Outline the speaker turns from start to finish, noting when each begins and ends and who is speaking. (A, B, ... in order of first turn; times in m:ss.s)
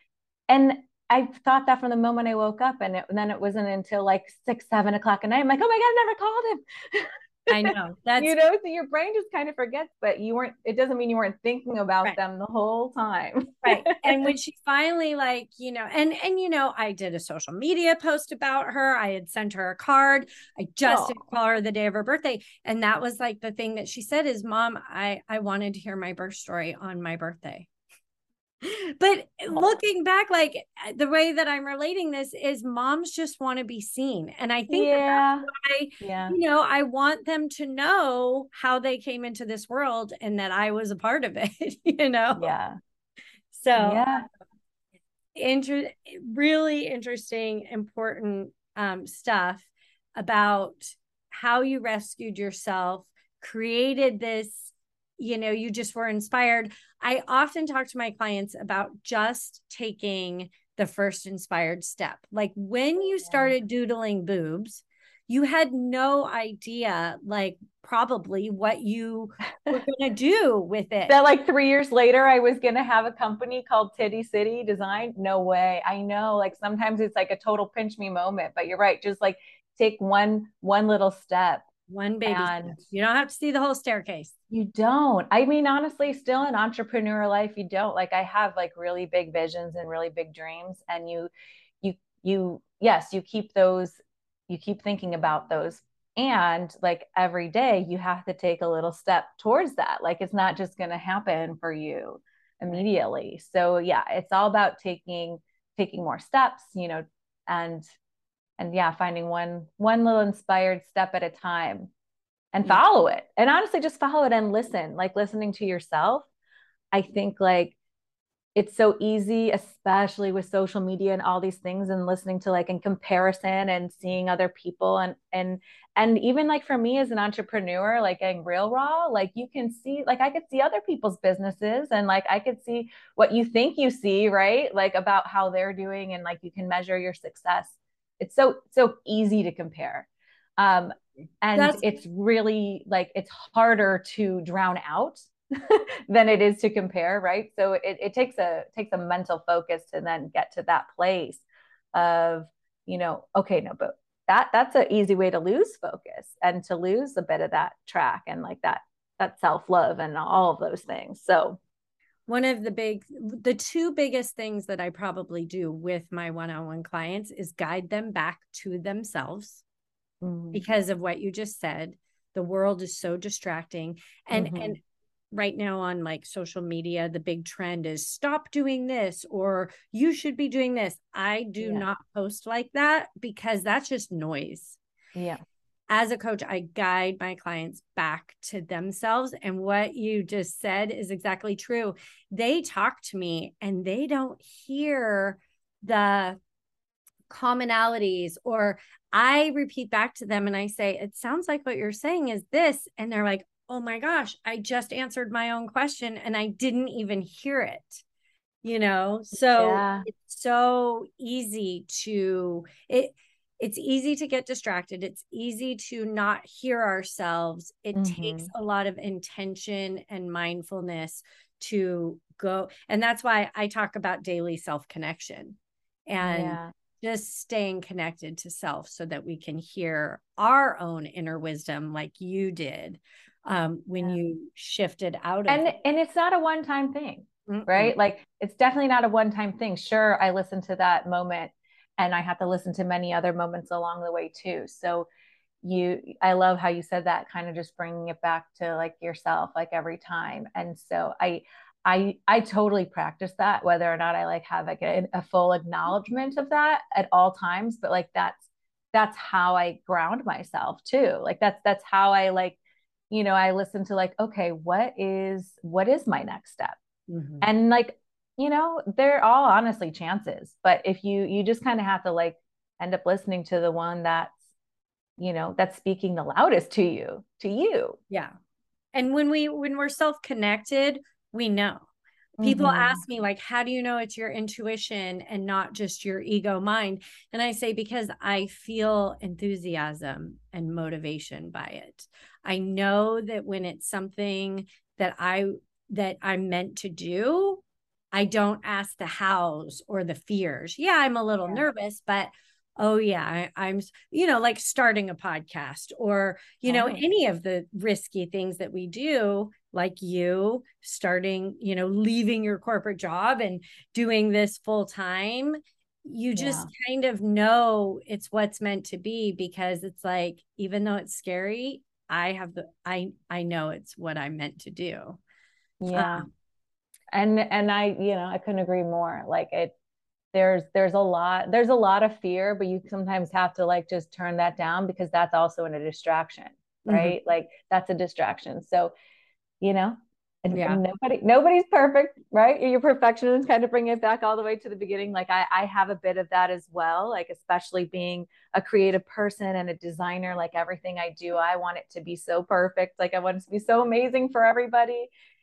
0:00.5-0:14.3 A
0:07.5-0:08.4 B
0:13.6-0:27.7 B
0:20.8-0:21.2 A
0:28.6-0:42.5 B
0:29.5-0:29.8 A
0:34.7-0:35.5 A
0:36.0-0:36.4 A
0:42.4-0:42.8 A
0:43.5-0:44.0 B
0:43.8-0:44.2 A
0:45.4-1:11.2 B
1:03.3-1:03.5 A
1:11.1-1:21.6 A
1:21.9-1:24.3 B
1:22.2-1:22.8 A
1:24.5-1:31.3 A
1:31.8-1:34.0 A
1:34.5-1:47.8 A
1:48.6-1:51.9 A
1:52.5-1:56.3 A
1:56.9-1:57.7 A
1:58.6-2:20.1 A
2:20.6-2:41.6 A
2:21.5-2:21.8 B
2:42.3-2:49.6 B
2:50.2-2:50.6 A
2:50.5-3:04.8 B
2:54.3-2:54.8 A
3:05.1-3:05.4 A
3:05.9-3:16.4 B
3:17.3-3:28.0 B
3:28.6-3:45.6 B
3:29.5-3:30.1 A
3:38.0-3:38.5 A
3:46.1-3:55.7 B
3:46.2-3:46.7 A
3:55.5-4:05.1 A
3:57.5-3:57.9 B
4:05.6-4:22.6 A
4:23.1-4:26.8 A
4:27.1-4:27.4 B
4:27.4-4:34.4 A
4:35.2-4:38.0 A
4:38.9-4:41.9 B
4:42.4-4:43.0 A
4:42.4-5:25.2 B
5:06.6-5:07.0 A
5:16.4-5:16.7 A
5:25.8-5:26.2 A
5:25.9-5:26.3 B
5:27.1-5:29.7 A
5:30.3-5:38.9 A
5:36.8-5:37.2 B
5:39.6-5:55.1 A
5:40.5-5:40.8 B